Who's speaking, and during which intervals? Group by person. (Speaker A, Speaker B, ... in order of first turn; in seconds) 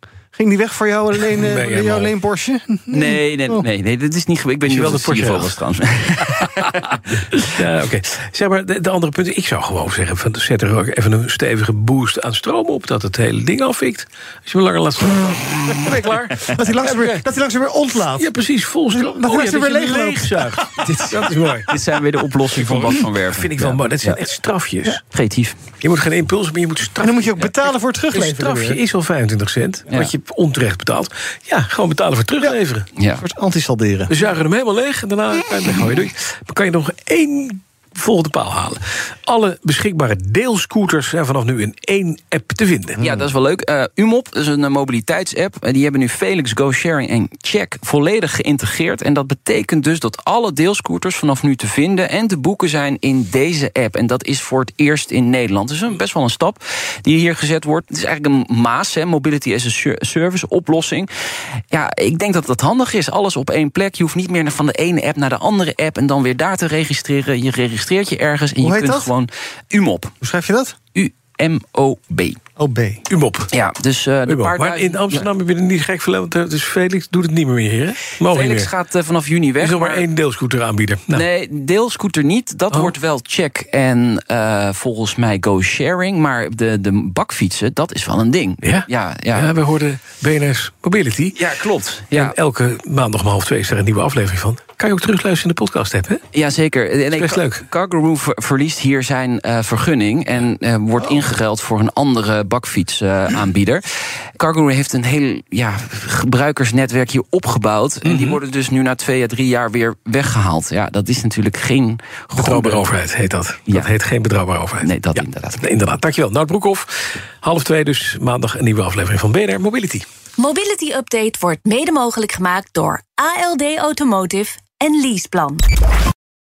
Speaker A: 0.3-3.6, 16.5-18.2, 19.1-20.8, 27.0-28.8, 33.2-34.1, 68.6-69.1, 70.2-70.7, 72.6-73.0
Speaker B: 1.2-2.1, 4.6-5.6, 7.5-17.3, 18.0-21.7, 22.5-25.0, 25.8-27.5, 28.1-32.9, 34.1-43.0, 73.1-73.5, 74.2-78.7, 79.6-81.2, 88.6-91.4, 92.1-96.2, 97.1-97.7, 108.0-108.4, 112.3-120.0
Speaker C: 2.9-7.4, 21.1-24.2, 25.1-25.6, 33.0-33.2, 43.0-61.1, 61.7-70.1, 70.9-72.4, 73.5-75.3, 78.2-80.1, 81.1-89.5, 91.3-92.3, 96.3-103.8, 104.4-112.9, 113.7-113.9, 114.8-115.7
Speaker D: 120.4-125.6